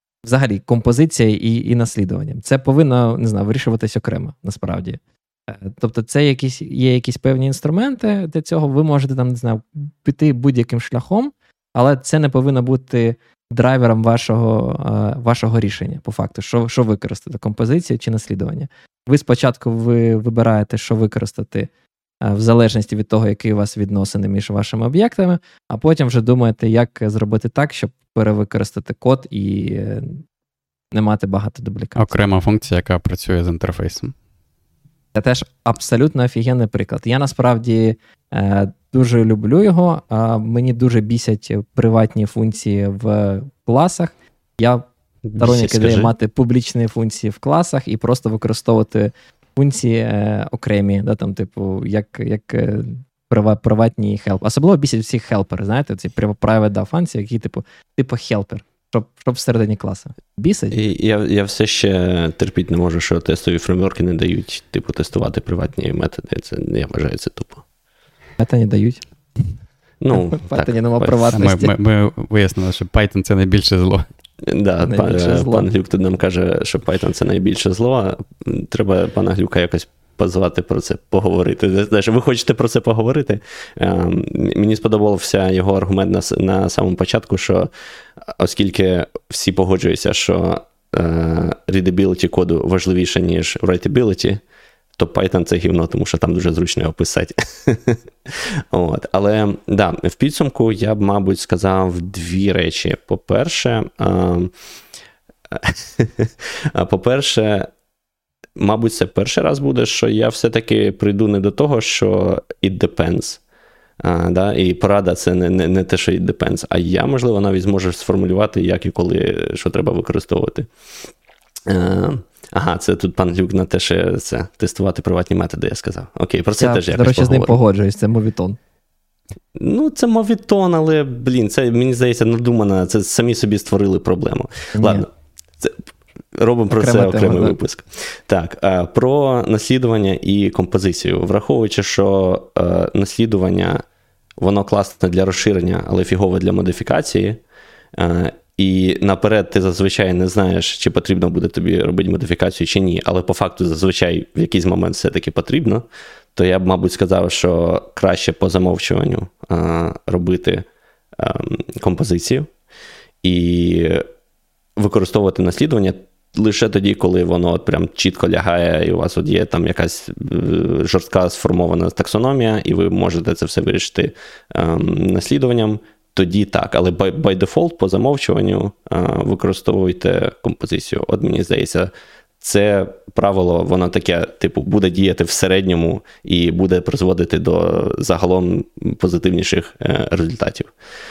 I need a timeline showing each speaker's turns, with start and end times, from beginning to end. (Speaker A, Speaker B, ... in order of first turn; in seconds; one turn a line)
Speaker A: 0.2-21.7
Speaker A: 22.2-30.2
Speaker A: 30.9-32.1
Speaker B: 32.0-34.1
Speaker A: 35.1-44.9
Speaker C: 45.3-46.1
Speaker A: 45.4-60.8
Speaker C: 60.7-67.6
Speaker A: 68.4-69.0
Speaker C: 70.0-71.3
Speaker A: 70.1-71.7
Speaker B: 71.3-74.1
Speaker C: 74.4-87.7
Speaker A: 74.8-75.7
Speaker C: 88.3-94.4
Speaker C: 95.0-104.5
Speaker C: 105.5-107.7
Speaker C: 108.6-113.4
Speaker C: 114.0-120.7
Speaker C: 121.7-127.6
Speaker A: 126.6-128.6
Speaker C: 129.6-135.1
Speaker A: 134.8-135.1
Speaker C: 136.3-143.8
Speaker A: 136.7-137.6
Speaker C: 144.4-147.4
Speaker C: 148.0-160.7
Speaker C: 161.2-162.5
Speaker C: 163.2-164.1
Speaker C: 164.8-190.7